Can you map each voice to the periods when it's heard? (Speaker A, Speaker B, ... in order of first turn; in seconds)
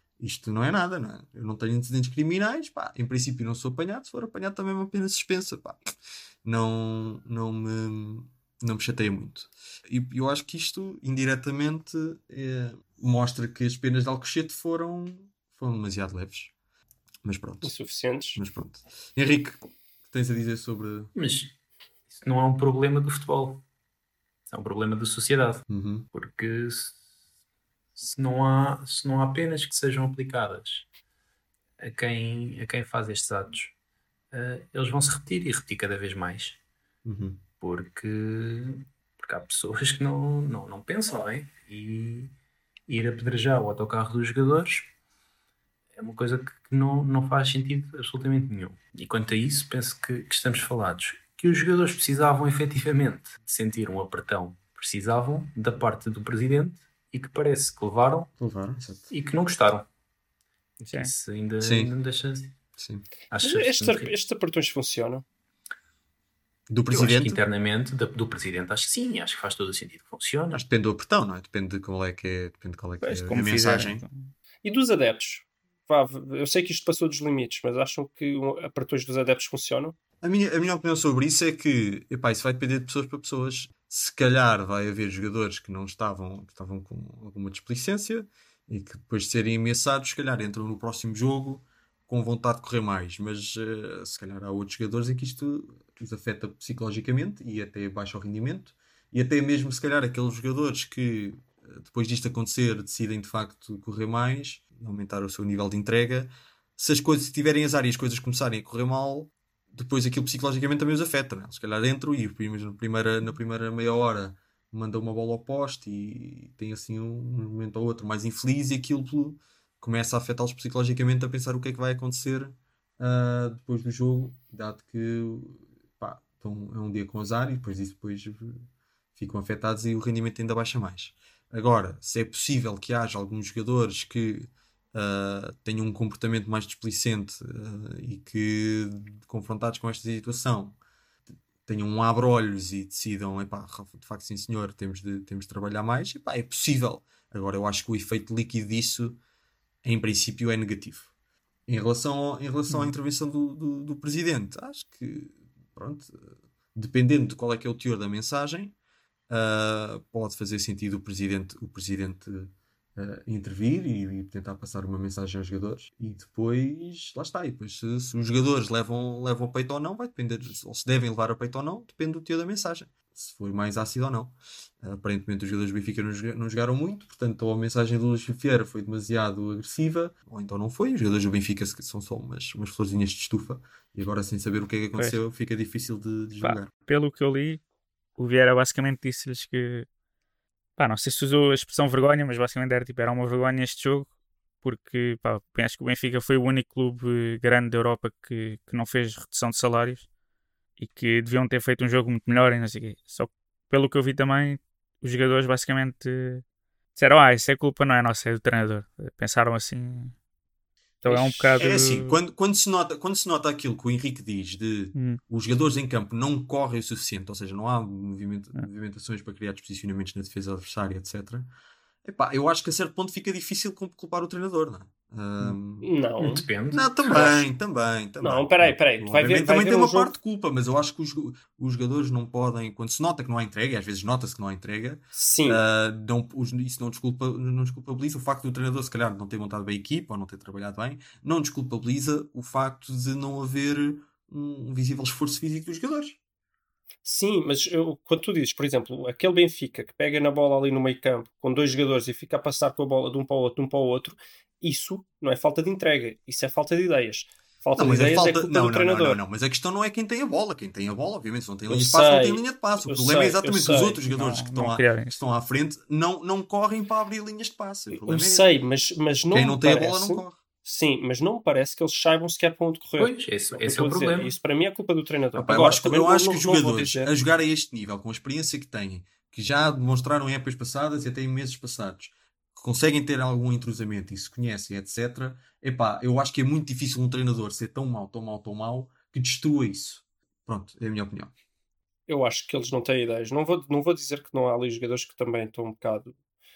Speaker A: 0.2-5.8, 6.4-16.5, 17.2-17.7, 18.4-21.1, 25.7-26.1, 37.0-37.4, 58.4-59.1, 61.6-61.9, 62.8-63.0, 66.7-67.4, 70.5-74.0, 80.2-128.7, 129.2-140.8, 141.6-149.2, 149.8-151.1, 151.7-158.8, 159.3-186.7, 211.6-221.5, 222.1-225.9, 226.7-246.2, 257.8-268.5, 269.3-270.4, 275.3-291.3
Speaker B: 17.6-18.4, 63.4-65.2, 74.6-80.0, 225.8-226.5, 227.1-227.4, 228.2-230.1, 235.2-235.6, 247.1-259.2, 261.7-264.0, 267.9-277.1, 292.1-296.1
Speaker C: 21.1-21.6, 22.1-23.6, 24.5-27.0, 28.0-30.9, 31.8-33.7, 34.3-36.6, 37.6-42.3, 42.9-44.9, 46.0-58.3, 59.1-59.9, 60.8-62.6, 63.3-64.1, 66.9-70.6, 226.2-227.3, 273.0-274.4
Speaker D: 73.0-74.3, 186.4-187.6, 188.2-189.9, 190.8-194.1, 194.6-200.1, 200.8-206.4, 207.0-210.1, 211.0-212.2, 214.9-215.2, 264.1-265.2